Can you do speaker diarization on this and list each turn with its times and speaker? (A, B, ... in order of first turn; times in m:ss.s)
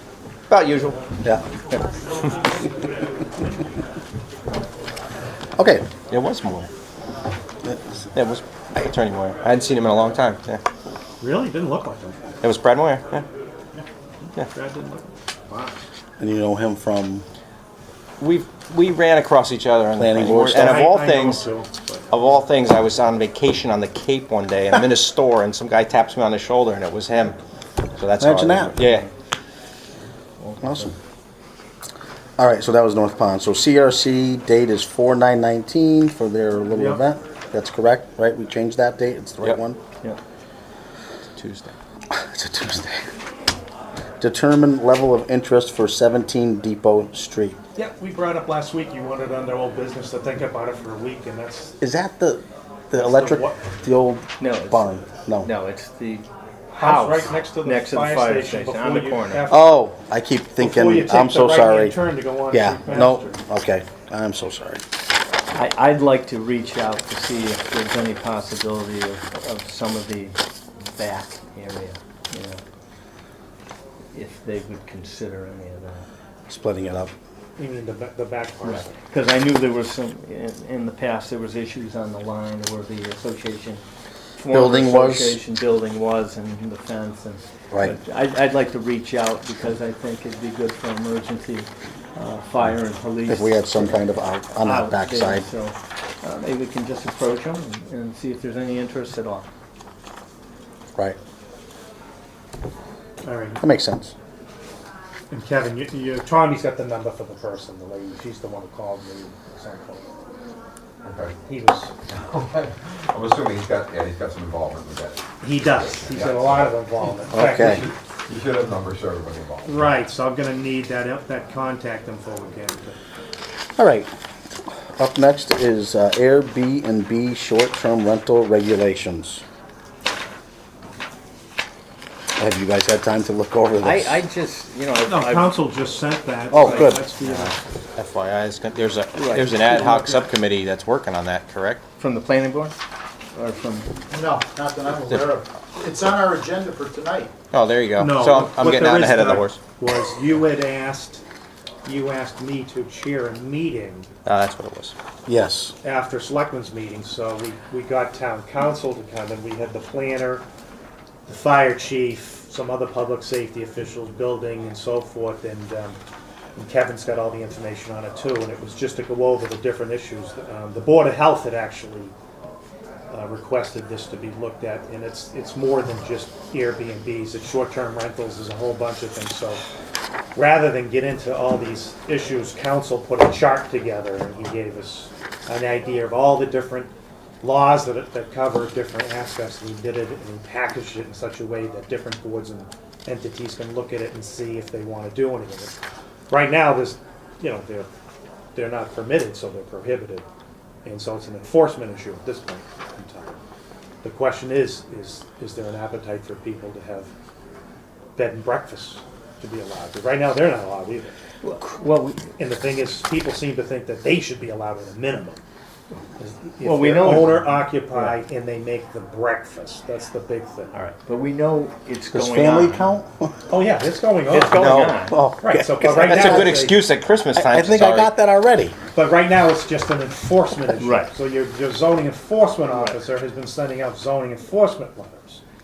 0:00.5-0:01.0 A
0:05.6-0:05.9 B
0:06.1-0:06.7 A
0:07.6-0:08.0 B
0:08.1-0:10.6 A
0:11.2-0:12.3 C
0:12.4-0:13.2 A
0:14.4-0:15.8 C
0:16.2-0:17.2 B
0:18.2-0:21.5 A
0:19.9-0:20.8 B
0:20.5-0:22.0 C
0:22.1-0:27.4 A
0:28.0-0:29.0 A
0:28.2-0:28.8 B
0:28.8-0:29.1 D
0:30.4-0:30.9 D
0:30.6-0:30.9 B
0:32.4-0:39.8 B
0:36.7-0:37.0 C
0:41.4-0:41.7 A
0:42.1-0:43.1 B
0:44.2-0:47.6 B
0:47.7-0:51.8 C
0:51.8-0:55.5 B
0:52.9-0:53.7 C
0:54.4-0:59.5 D
0:56.7-0:59.7 C
0:59.5-1:04.8 B
1:00.6-1:03.4 C
1:05.5-1:12.6 D
1:14.1-1:16.1 D
1:16.5-1:17.1 B
1:17.6-1:19.0 C
1:18.6-1:23.8 D
1:24.4-1:34.0 D
1:24.5-1:25.4 B
1:27.7-1:28.0 B
1:33.2-1:35.5 B
1:34.6-1:39.5 D
1:43.2-1:43.6 C
1:43.6-1:44.1 B
1:45.3-1:50.0 C
1:51.0-1:51.4 E
1:51.4-1:51.9 C
1:52.1-1:59.9 E
1:55.4-1:57.8 C
1:57.3-1:57.9 B
1:59.6-2:03.0 C
2:03.8-2:04.1 B
2:04.9-2:09.4 B
2:12.4-2:14.2 B
2:13.8-2:15.6 D
2:15.1-2:17.6 C
2:16.5-2:17.0 B
2:16.6-2:16.9 D
2:17.2-2:21.8 A
2:19.2-2:19.8 D
2:19.9-2:20.2 C
2:22.0-2:22.7 D
2:23.3-2:23.9 D
2:24.1-2:27.3 F
2:27.5-2:29.6 A
2:28.0-2:31.2 C
2:31.8-2:34.1 C
2:34.2-2:34.9 A
2:35.2-2:35.8 B
2:35.8-2:40.4 C
2:41.3-2:46.0 C
2:46.6-2:52.1 C
2:53.1-2:59.6 C
3:00.3-3:06.9 C
3:07.4-3:15.7 C
3:16.3-3:17.9 C
3:18.5-3:20.2 C
3:20.8-3:23.4 C
3:24.0-3:27.1 C
3:28.2-3:31.1 C
3:31.4-3:32.2 D
3:32.4-3:35.4 C
3:36.2-3:40.7 C
3:36.6-3:38.2 D
3:40.7-3:42.9 D
3:42.1-3:43.4 B
3:43.5-3:44.8 C
3:44.3-3:45.2 D
3:44.5-3:45.1 A
3:45.1-3:46.7 B
3:45.4-3:46.8 C
3:45.8-3:48.1 A
3:47.3-3:48.8 B
3:48.9-3:55.4 C
3:50.8-3:51.1 D